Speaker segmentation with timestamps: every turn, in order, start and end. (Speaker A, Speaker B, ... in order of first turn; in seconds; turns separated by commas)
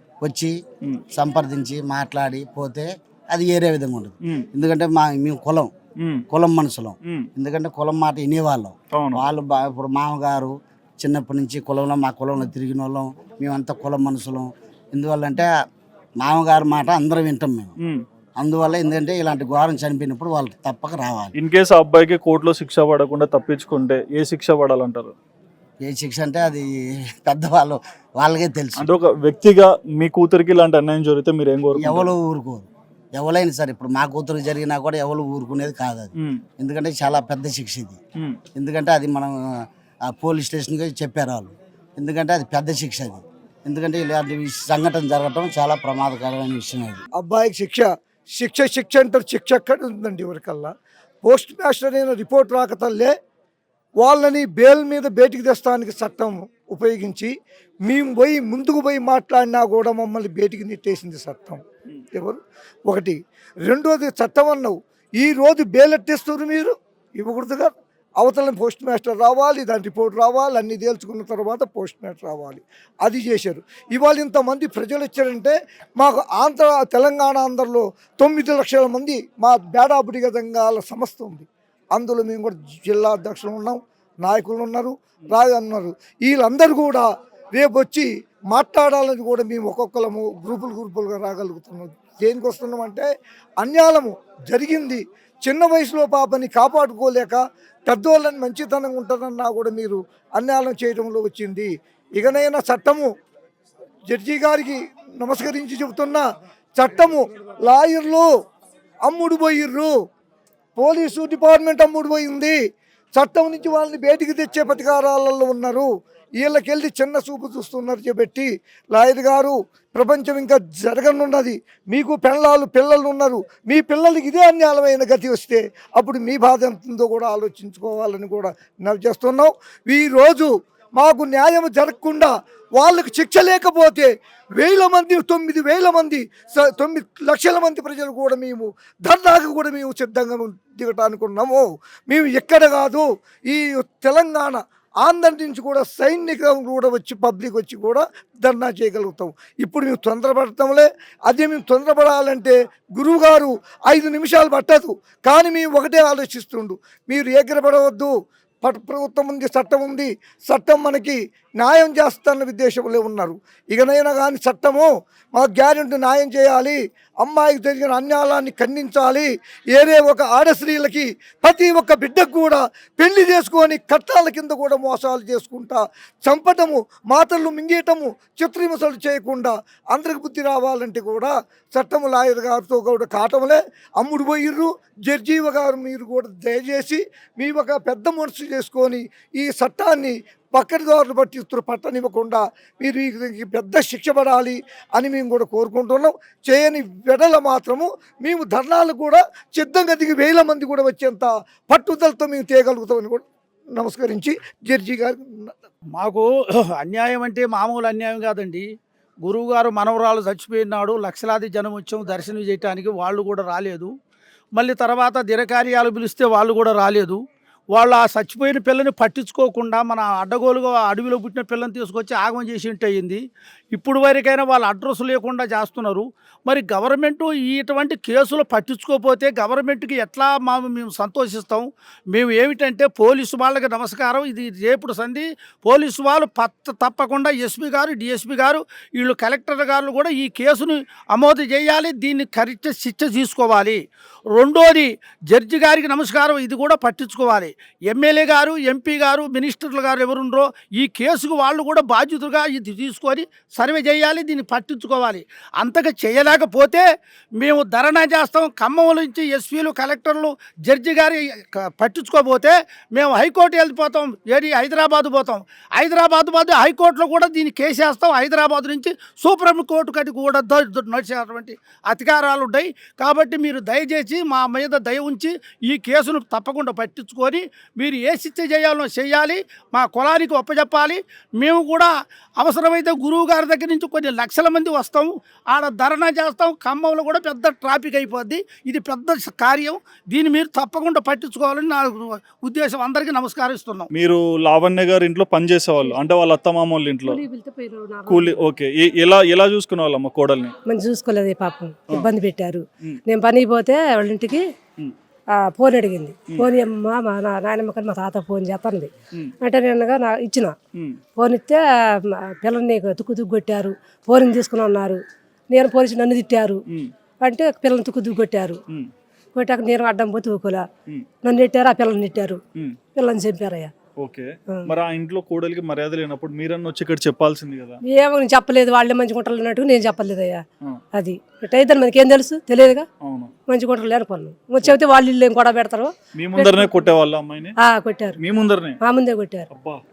Speaker A: 0.2-0.6, Speaker A: 1.1-5.7, Speaker B: 6.0-6.2, Speaker A: 6.3-15.5, Speaker B: 8.9-9.2, Speaker A: 16.2-17.8, Speaker A: 18.4-21.3, Speaker B: 21.4-25.1, Speaker A: 25.8-26.7, Speaker A: 27.3-28.9, Speaker B: 28.8-32.1, Speaker A: 31.8-38.0, Speaker A: 38.5-39.3, Speaker A: 40.1-47.0, Speaker C: 47.2-50.7, Speaker C: 51.2-53.1, Speaker C: 54.0-57.3, Speaker C: 57.9-61.6, Speaker C: 62.1-93.1, Speaker C: 93.6-103.1, Speaker C: 104.1-106.2, Speaker C: 106.8-108.3, Speaker C: 109.1-109.9, Speaker C: 110.8-112.6, Speaker C: 113.2-115.9, Speaker C: 116.4-158.1, Speaker C: 158.6-203.2, Speaker C: 203.8-205.6, Speaker D: 206.0-208.7, Speaker D: 209.2-213.9, Speaker D: 214.6-217.2, Speaker D: 217.7-223.2, Speaker D: 223.7-243.8, Speaker D: 244.4-256.9, Speaker D: 257.4-293.9, Speaker B: 293.9-297.2, Speaker E: 297.0-298.4, Speaker B: 298.1-300.6, Speaker E: 300.7-304.5, Speaker E: 305.4-310.6, Speaker E: 311.2-316.6, Speaker E: 317.2-318.6, Speaker E: 319.4-320.6, Speaker E: 321.2-322.4, Speaker E: 322.9-323.7, Speaker B: 324.0-327.8, Speaker E: 327.9-330.4, Speaker E: 330.9-332.9, Speaker B: 333.0-333.3, Speaker E: 333.5-336.9, Speaker B: 336.1-337.6, Speaker E: 337.6-338.2, Speaker B: 338.2-338.8, Speaker E: 338.8-339.5, Speaker B: 339.5-339.8